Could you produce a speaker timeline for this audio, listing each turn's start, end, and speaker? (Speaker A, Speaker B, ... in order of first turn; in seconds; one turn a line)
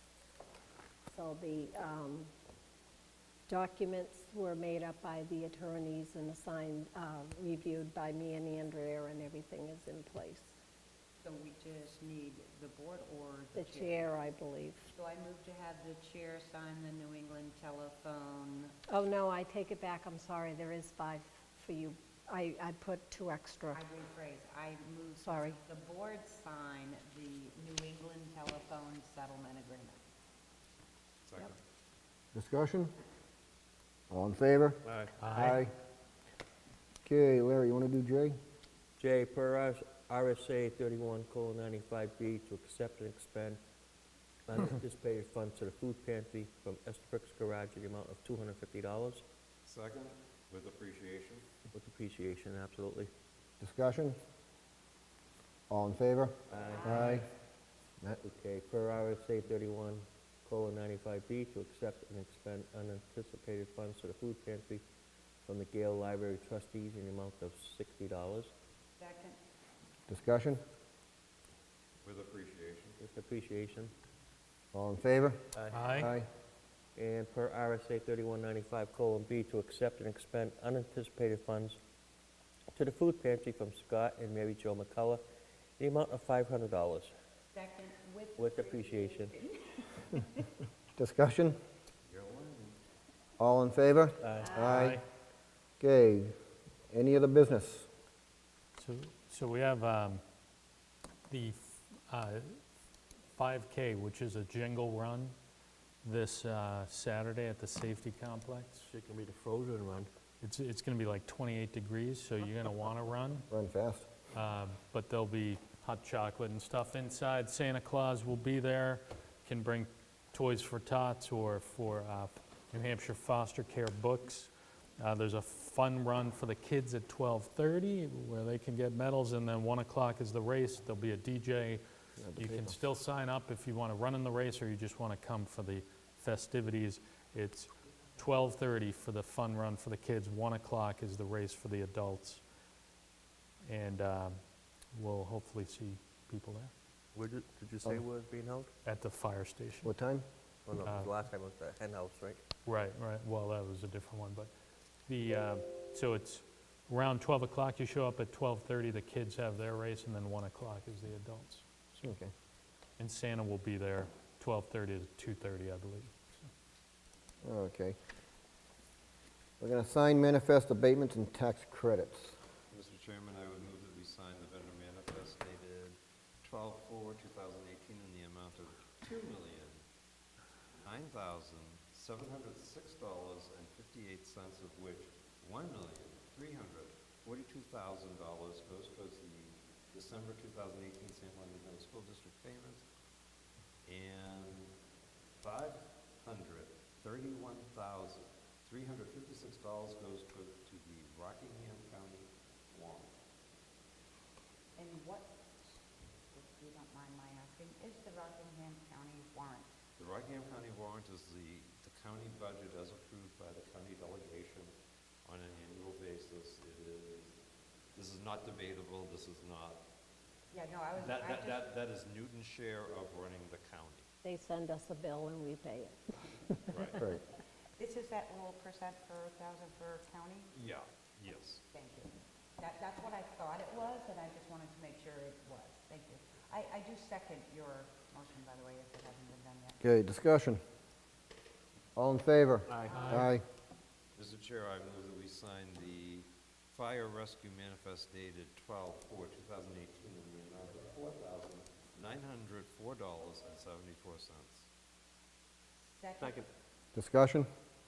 Speaker A: 1.1-2.3
Speaker A: 3.5-10.5
Speaker B: 11.2-14.1
Speaker A: 13.6-14.9
Speaker B: 14.9-18.8
Speaker A: 18.9-23.8
Speaker B: 23.7-30.0
Speaker A: 25.2-25.6
Speaker C: 31.3-31.6
Speaker D: 32.3-32.9
Speaker D: 34.1-34.8
Speaker E: 35.2-35.6
Speaker D: 35.3-35.7
Speaker D: 37.0-38.4
Speaker F: 39.0-43.6
Speaker F: 44.5-49.2
Speaker C: 49.6-51.5
Speaker F: 51.7-53.1
Speaker D: 53.6-54.2
Speaker D: 55.7-57.3
Speaker C: 56.5-57.0
Speaker F: 56.5-57.2
Speaker F: 58.2-64.8
Speaker F: 65.5-68.5
Speaker B: 69.0-69.4
Speaker D: 70.1-70.6
Speaker C: 72.0-73.0
Speaker F: 73.0-73.9
Speaker D: 74.7-75.4
Speaker F: 75.5-76.0
Speaker E: 75.7-76.1
Speaker D: 76.0-76.3
Speaker F: 77.0-81.8
Speaker F: 82.8-85.2
Speaker F: 85.8-87.1
Speaker B: 87.5-90.4
Speaker F: 88.4-89.4
Speaker D: 91.0-91.6
Speaker C: 92.1-92.8
Speaker D: 93.4-95.0
Speaker F: 94.2-94.9
Speaker E: 94.6-95.0
Speaker D: 95.8-96.3
Speaker D: 96.9-97.9
Speaker E: 98.8-100.2
Speaker E: 101.3-102.6
Speaker E: 103.4-105.3
Speaker E: 106.0-108.9
Speaker F: 108.9-110.1
Speaker E: 110.4-113.5
Speaker D: 113.5-114.1
Speaker E: 114.3-131.8
Speaker D: 132.2-132.8
Speaker E: 132.3-142.4
Speaker E: 143.6-144.4
Speaker E: 144.9-146.7
Speaker F: 147.1-148.7
Speaker E: 148.8-149.9
Speaker D: 149.8-150.2
Speaker F: 150.7-152.4
Speaker E: 150.8-151.1
Speaker E: 152.7-154.5
Speaker E: 155.1-161.7
Speaker D: 162.0-162.3
Speaker E: 163.0-166.5
Speaker D: 167.4-168.0
Speaker D: 169.6-172.4
Speaker C: 172.7-179.8
Speaker C: 180.8-192.9
Speaker C: 193.8-194.7
Speaker C: 195.4-203.1
Speaker B: 204.8-209.7
Speaker C: 210.0-214.7
Speaker C: 215.2-217.4
Speaker C: 217.9-219.8
Speaker B: 220.5-221.7
Speaker C: 221.0-224.1
Speaker A: 224.2-227.0
Speaker C: 226.7-227.0
Speaker B: 227.8-230.6
Speaker C: 230.6-231.6
Speaker B: 231.7-239.8
Speaker D: 239.8-240.6
Speaker D: 242.0-243.4
Speaker E: 242.9-243.3
Speaker B: 242.9-243.3
Speaker C: 244.2-254.7
Speaker B: 255.9-256.5
Speaker D: 256.9-257.5